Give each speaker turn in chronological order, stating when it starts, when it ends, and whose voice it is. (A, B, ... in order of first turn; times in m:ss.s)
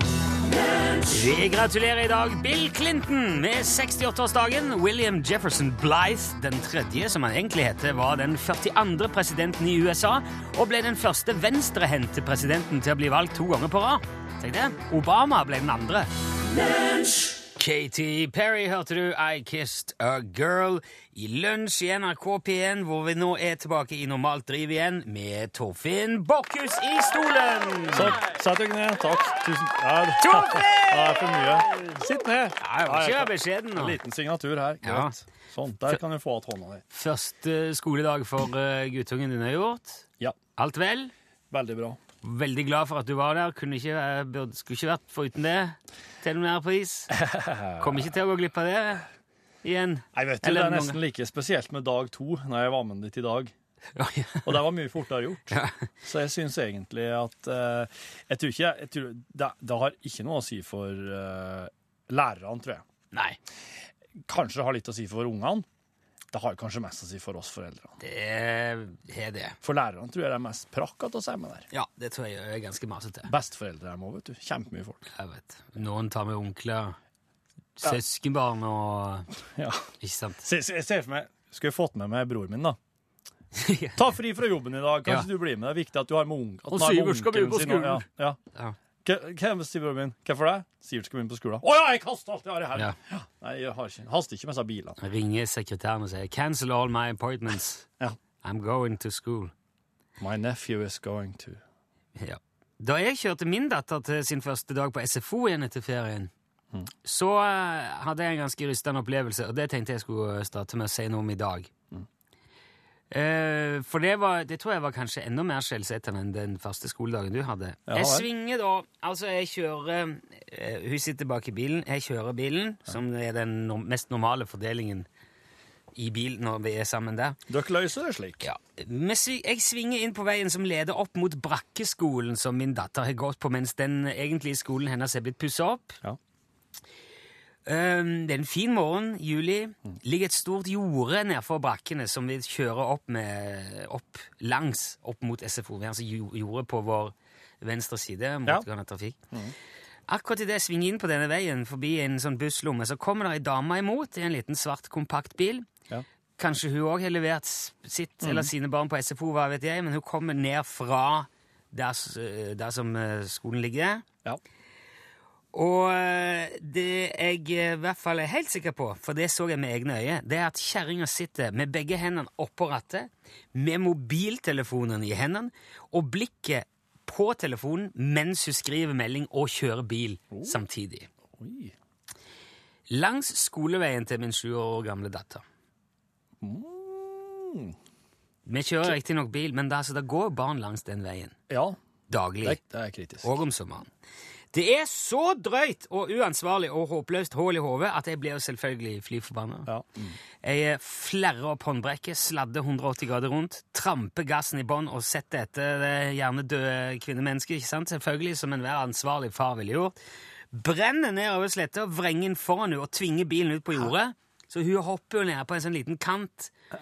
0:01.1-0:16.1 A
0:17.5-0:28.2 A
0:27.9-0:36.8 B
0:30.2-0:31.4 A
0:32.6-0:34.0 A
0:34.8-0:35.1 A
0:36.9-0:40.0 A
0:40.6-0:41.1 A
0:41.5-0:42.0 B
0:42.2-0:47.1 A
0:47.1-0:48.1 B
0:47.8-0:49.0 A
0:49.6-0:51.0 A
0:50.1-0:53.5 B
0:54.0-0:54.6 A
0:54.4-1:02.8 B
0:55.5-0:55.9 A
1:03.1-1:03.4 A
1:04.2-1:05.6 B
1:06.3-1:07.9 B
1:08.0-1:09.6 A
1:09.6-1:11.7 B
1:11.7-1:13.3 A
1:13.2-1:15.0 B
1:15.1-1:17.0 A
1:17.8-1:19.3 A
1:19.6-1:19.9 B
1:20.0-1:20.4 A
1:20.4-1:22.8 B
1:23.5-1:24.0 A
1:24.0-1:28.4 B
1:26.7-1:28.8 A
1:29.0-1:35.0 B
1:35.0-1:37.8 A
1:38.4-1:39.5 A
1:40.2-1:41.6 B
1:42.2-1:46.3 A
1:47.0-1:51.7 A
1:53.1-2:05.1 A
1:57.9-1:58.3 B
2:05.9-2:07.4 A
2:07.5-2:08.5 B
2:08.4-2:16.0 A
2:17.6-2:29.2 A
2:30.1-2:35.7 A
2:36.4-2:44.0 A
2:38.2-2:38.5 B
2:45.5-3:01.1 A
3:00.3-3:00.6 B
3:01.3-3:01.7 B
3:02.9-3:05.4 A
3:06.4-3:07.8 B
3:08.4-3:11.4 A
3:11.5-3:11.8 B
3:12.1-3:12.6 A
3:12.4-3:13.3 B
3:13.2-3:13.9 A
3:14.5-3:19.7 A
3:19.6-3:20.2 B
3:20.4-3:29.9 A
3:30.5-3:36.5 A